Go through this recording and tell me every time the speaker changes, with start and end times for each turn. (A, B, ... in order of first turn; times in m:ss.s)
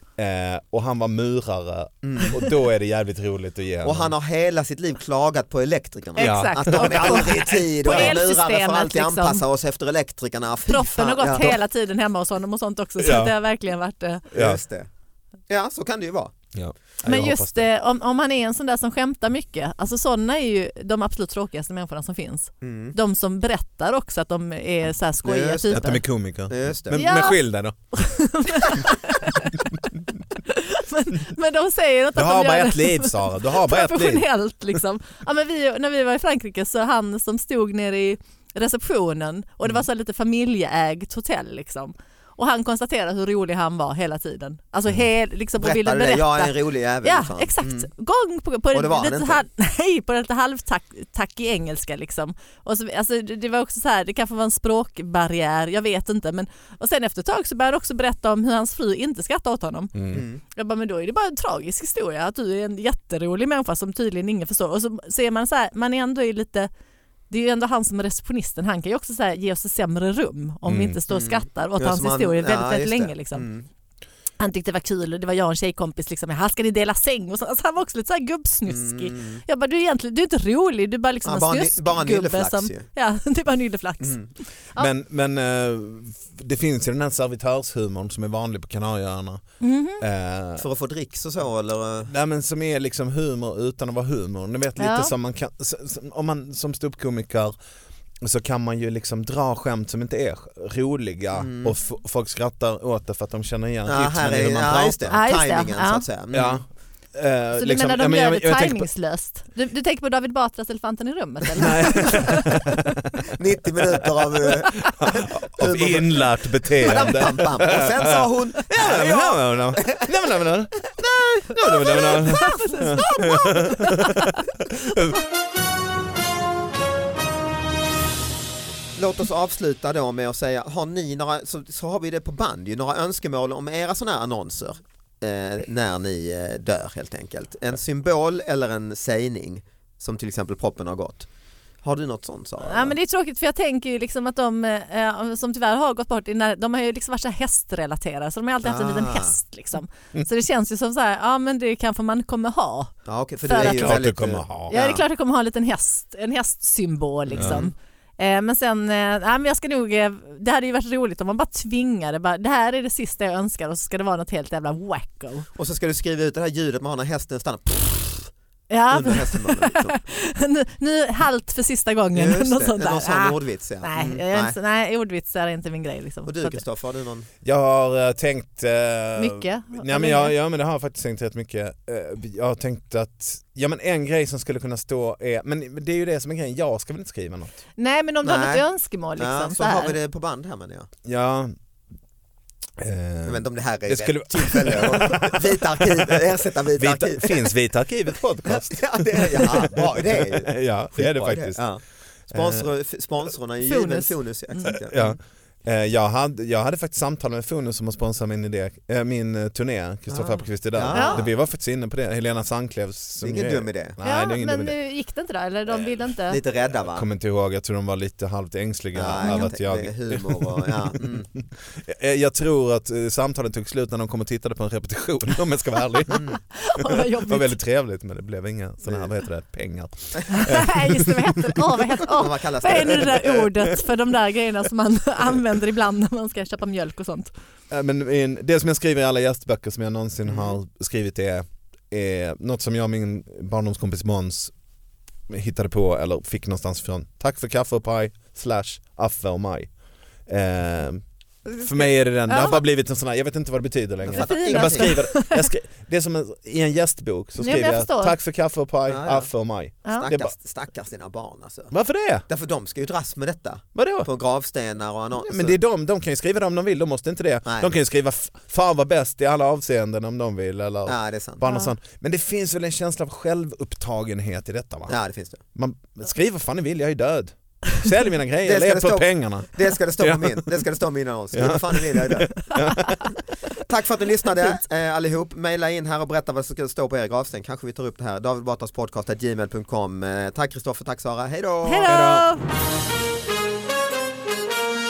0:00.2-0:04.1 A
0:02.0-0:02.4 B
0:03.8-0:11.5 B
0:06.2-0:08.2 A
0:06.2-0:09.4 C
0:10.7-0:14.2 C
0:13.0-0:13.3 A
0:14.3-0:14.6 A
0:14.3-0:14.9 B
0:15.5-0:16.4 B
0:16.5-0:17.7 A
0:17.0-0:26.0 C
0:22.6-0:23.0 B
0:25.2-0:27.1 B
0:25.7-0:28.2 A
0:26.9-0:27.4 C
0:27.9-0:29.8 C
0:30.4-1:06.7 C
0:32.2-0:34.3 A
0:45.6-0:47.9 B
0:48.7-0:49.4 B
1:00.0-1:00.2 A
1:00.1-1:00.4 B
1:07.3-1:13.5 C
1:10.7-1:11.0 A
1:11.1-1:13.7 B
1:14.4-1:24.2 C
1:18.7-1:19.4 B
1:21.2-1:22.9 B
1:24.0-1:24.3 B
1:24.8-1:29.4 A
1:29.6-1:30.0 C
1:30.0-1:30.6 A
1:30.6-1:32.1 B
1:32.1-1:37.5 A
1:34.8-1:35.1 C
1:38.2-1:45.2 A
1:41.4-1:41.8 B
1:43.9-1:46.6 B
1:45.1-1:46.0 C
1:46.3-1:48.9 A
1:47.6-1:52.6 C
1:51.5-1:53.2 A
1:53.3-2:03.4 B
1:53.8-2:00.9 A
2:01.5-2:05.2 A
2:01.8-2:04.3 C
2:09.0-2:21.3 B
2:21.8-2:23.0 B
2:22.6-2:32.9 C
2:28.6-2:29.4 B
2:33.1-2:35.0 B
2:33.5-2:34.0 C
2:33.6-2:34.8 A
2:34.7-2:45.5 C
2:37.3-2:37.7 B
2:37.4-2:37.6 A
2:45.6-2:48.3 B
2:48.7-2:56.6 C
2:48.9-2:50.0 B
2:52.1-2:54.6 B
2:56.3-2:57.3 B
2:57.4-3:07.6 A
2:59.2-3:00.3 C
3:07.8-3:09.9 C
3:08.2-3:08.6 B
3:09.2-3:10.9 B
3:11.0-3:11.6 A
3:12.8-3:16.2 A
3:13.3-3:17.5 B
3:16.8-3:21.6 A
3:18.4-3:25.2 B
3:22.3-3:22.6 A
3:23.6-3:24.8 C
3:24.7-3:34.8 A
3:30.1-3:31.3 B
3:30.9-3:31.2 C
3:33.2-3:34.0 B
3:34.0-3:36.4 C
3:36.3-3:37.1 B
3:36.8-3:51.6 A
3:38.9-3:41.3 B
3:39.2-3:39.5 C
3:46.1-3:46.4 B
3:46.6-3:47.6 C
3:50.3-3:57.3 C
3:52.1-3:53.4 B
3:57.7-4:04.5 A
4:00.3-4:00.6 B
4:05.3-4:09.7 A
4:10.3-4:11.0 A
4:11.5-4:12.6 C
4:11.6-4:20.3 A
4:14.0-4:15.0 B
4:14.2-4:15.4 C
4:17.4-4:18.2 C
4:18.9-4:21.7 B
4:21.7-4:22.2 A
4:22.3-4:25.6 B
4:23.8-4:24.1 A
4:25.2-4:35.0 A
4:27.5-4:27.7 B
4:30.9-4:31.5 B
4:34.9-4:35.4 B
4:35.6-4:39.5 A
4:38.4-4:42.4 B
4:40.0-4:40.5 A
4:41.3-4:43.1 A
4:42.7-4:43.0 C
4:43.6-4:52.0 B
4:51.7-4:52.4 C
4:51.9-4:52.3 A